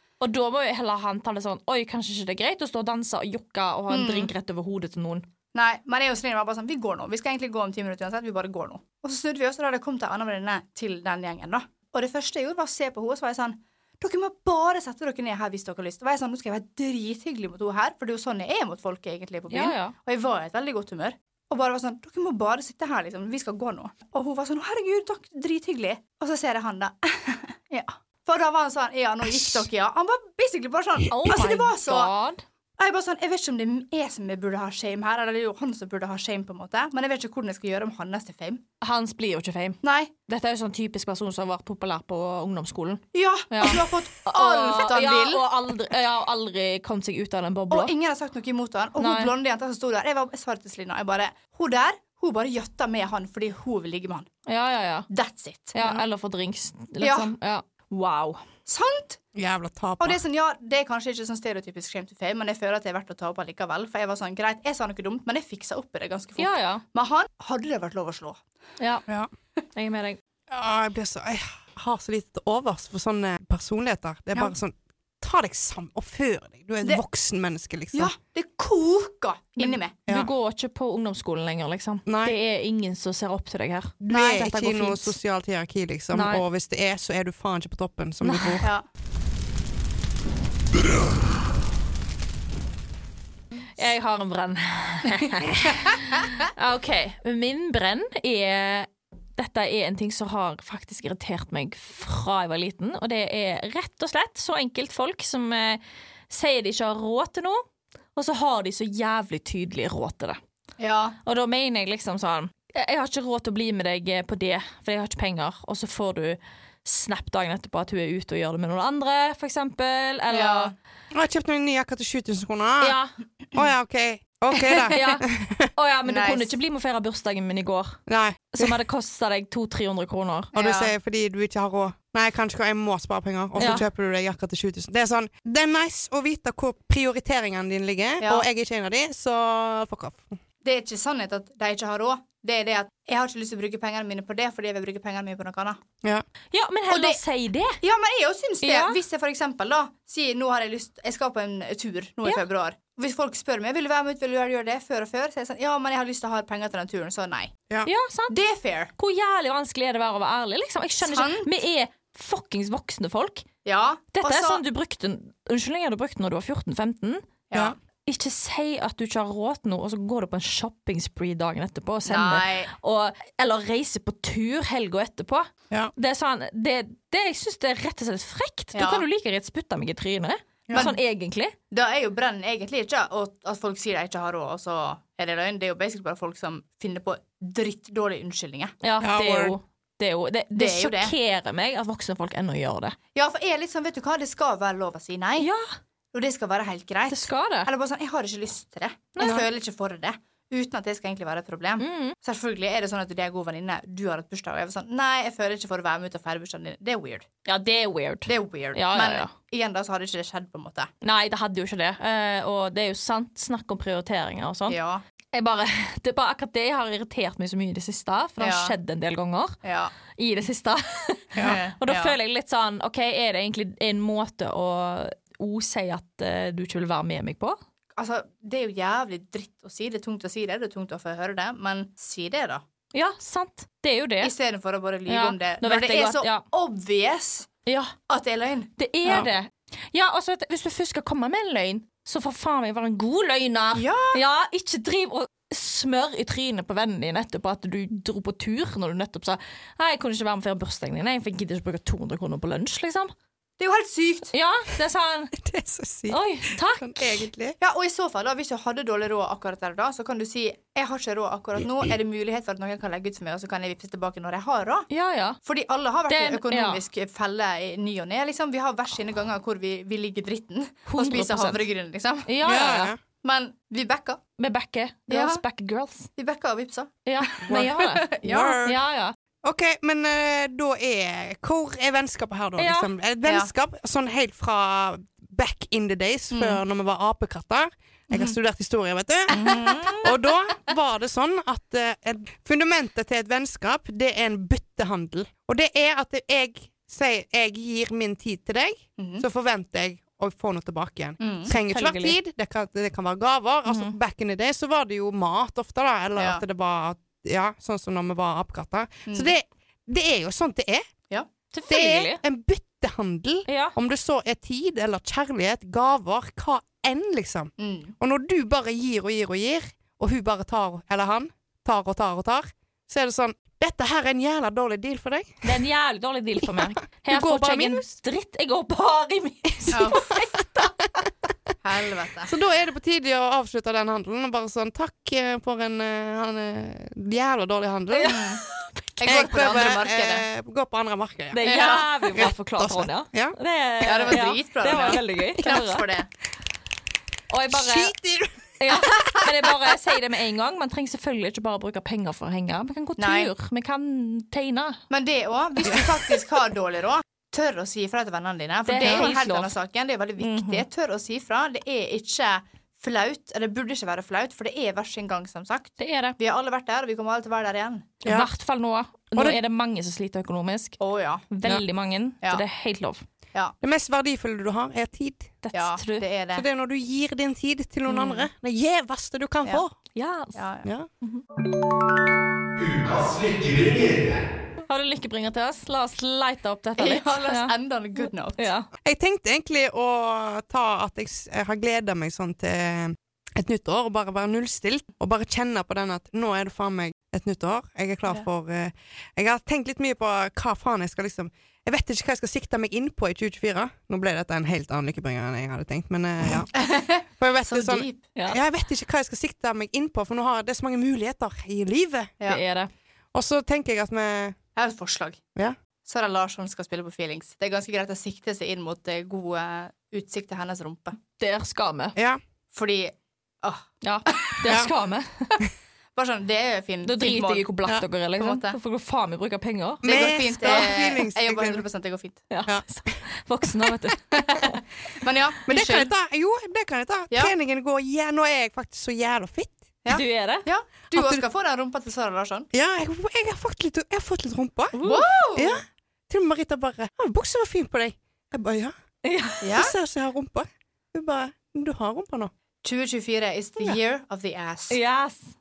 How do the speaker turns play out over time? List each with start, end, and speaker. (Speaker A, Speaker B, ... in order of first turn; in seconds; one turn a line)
Speaker A: 0.2-5.2
Speaker B: 3.9-4.3
Speaker B: 5.5-32.1
Speaker A: 19.5-19.9
Speaker C: 29.3-29.6
Speaker A: 31.1-32.4
Speaker B: 32.8-38.6
Speaker A: 38.8-47.9
Speaker B: 39.8-40.1
Speaker B: 43.1-45.4
Speaker B: 47.7-54.3
Speaker A: 49.0-49.3
Speaker A: 54.5-55.1
Speaker B: 55.1-55.8
Speaker A: 55.7-58.4
Speaker B: 57.0-57.3
Speaker B: 58.6-59.2
Speaker C: 59.3-60.2
Speaker B: 60.0-68.4
Speaker A: 66.4-66.8
Speaker A: 68.8-69.0
Speaker A: 69.7-70.2
Speaker C: 70.5-78.1
Speaker B: 77.9-79.9
Speaker A: 79.6-85.1
Speaker C: 82.1-82.3
Speaker C: 84.0-88.7
Speaker A: 86.1-86.4
Speaker A: 88.2-88.7
Speaker A: 93.8-107.6
Speaker A: 108.2-110.4
Speaker B: 110.8-111.2
Speaker A: 111.2-120.7
Speaker B: 120.3-120.7
Speaker C: 121.1-123.0
Speaker A: 122.8-123.1
Speaker C: 123.5-125.7
Speaker A: 124.7-125.2
Speaker A: 125.8-128.0
Speaker B: 126.0-126.5
Speaker C: 128.1-128.8
Speaker A: 128.5-130.5
Speaker B: 130.5-130.9
Speaker C: 130.6-140.4
Speaker A: 133.6-133.8
Speaker B: 138.2-138.4
Speaker B: 140.6-145.8
Speaker A: 146.5-147.8
Speaker B: 146.9-147.2
Speaker B: 147.8-157.5
Speaker A: 148.6-149.0
Speaker A: 157.8-158.3
Speaker B: 158.3-158.9
Speaker A: 159.0-163.4
Speaker B: 161.0-161.5
Speaker B: 163.6-164.6
Speaker A: 164.1-167.2
Speaker B: 167.5-167.8
Speaker A: 168.1-181.5
Speaker B: 172.1-172.7
Speaker B: 178.7-179.0
Speaker B: 181.7-188.7
Speaker A: 188.8-192.9
Speaker C: 189.0-189.5
Speaker B: 190.5-191.1
Speaker B: 193.1-195.5
Speaker A: 195.4-195.7
Speaker B: 196.1-207.3
Speaker A: 197.1-197.7
Speaker A: 199.2-199.4
Speaker A: 201.8-202.1
Speaker A: 207.4-209.3
Speaker B: 208.3-210.9
Speaker A: 211.0-214.8
Speaker B: 214.7-215.0
Speaker A: 215.3-219.6
Speaker B: 218.4-218.7
Speaker B: 219.6-219.9
Speaker A: 220.1-227.6
Speaker B: 221.4-222.1
Speaker B: 228.0-232.6
Speaker A: 232.9-234.3
Speaker B: 234.2-237.5
Speaker A: 235.1-236.4
Speaker A: 237.7-237.9
Speaker B: 238.1-238.7
Speaker A: 238.8-253.1
Speaker B: 243.7-244.2
Speaker B: 253.6-254.3
Speaker A: 254.3-255.3
Speaker C: 255.3-257.6
Speaker A: 256.1-257.3
Speaker B: 257.6-264.9
Speaker A: 264.9-265.4
Speaker B: 265.4-272.3
Speaker A: 266.1-266.8
Speaker A: 270.9-271.7
Speaker A: 272.3-272.9
Speaker C: 272.4-273.0
Speaker B: 273.2-274.2
Speaker A: 274.4-276.1
Speaker B: 275.1-275.4
Speaker B: 276.2-278.6
Speaker A: 277.1-278.1
Speaker C: 277.4-277.7
Speaker C: 278.2-278.8
Speaker A: 278.6-279.1
Speaker C: 279.4-289.4
Speaker A: 282.6-282.9
Speaker B: 283.2-283.5
Speaker B: 286.3-286.6
Speaker B: 288.1-288.4
Speaker B: 289.3-290.1
Speaker A: 289.3-290.1
Speaker C: 290.0-310.8
Speaker B: 299.0-299.2
Speaker B: 301.2-301.5
Speaker A: 301.5-302.1
Speaker A: 303.7-303.9
Speaker B: 306.2-306.4
Speaker B: 309.1-309.3
Speaker A: 311.5-312.2
Speaker C: 311.7-325.5
Speaker A: 313.5-313.8
Speaker B: 317.6-317.9
Speaker A: 325.4-330.7
Speaker C: 326.4-327.8
Speaker C: 329.6-330.3
Speaker B: 329.7-330.1
Speaker B: 331.6-332.3
Speaker C: 332.3-338.2
Speaker A: 337.9-338.7
Speaker B: 338.1-338.4
Speaker B: 339.0-340.2
Speaker C: 339.0-341.4
Speaker A: 341.3-345.9
Speaker B: 341.4-342.0
Speaker C: 342.1-343.4
Speaker B: 343.8-346.1
Speaker A: 347.3-347.9
Speaker C: 347.5-349.7
Speaker A: 348.6-354.8
Speaker B: 353.0-353.3
Speaker B: 354.9-368.0
Speaker A: 358.7-359.5
Speaker C: 358.8-359.1
Speaker A: 360.2-360.6
Speaker A: 365.8-366.2
Speaker C: 368.0-368.3
Speaker A: 368.0-373.0
Speaker B: 370.8-371.2
Speaker C: 373.6-375.3
Speaker A: 375.4-376.1
Speaker B: 375.5-376.4
Speaker C: 376.3-379.7
Speaker A: 377.9-378.3
Speaker A: 379.9-380.4
Speaker B: 380.3-380.7
Speaker C: 382.6-384.2
Speaker A: 384.7-387.5
Speaker B: 386.8-388.5
Speaker A: 388.4-388.7
Speaker C: 388.8-406.5
Speaker B: 406.5-408.0
Speaker C: 407.2-412.1
Speaker A: 412.2-412.7
Speaker C: 413.1-414.4
Speaker B: 414.6-415.2
Speaker B: 415.8-421.0
Speaker A: 421.2-421.9
Speaker C: 421.9-422.2
Speaker B: 422.5-424.4
Speaker A: 423.8-425.4
Speaker C: 424.4-424.7
Speaker B: 425.9-427.4
Speaker A: 426.8-430.6
Speaker B: 428.2-428.6
Speaker C: 429.8-431.6
Speaker B: 429.8-432.2
Speaker A: 432.3-434.5
Speaker C: 432.5-432.9
Speaker B: 434.1-435.9
Speaker C: 435.5-439.6
Speaker B: 439.8-442.5
Speaker A: 439.9-440.5
Speaker C: 440.9-441.2
Speaker C: 442.5-444.8
Speaker A: 444.7-445.1
Speaker B: 444.8-445.6
Speaker C: 445.3-448.7
Speaker A: 449.0-449.4
Speaker B: 449.4-449.7
Speaker C: 449.4-452.3
Speaker B: 452.6-454.8
Speaker A: 454.7-455.3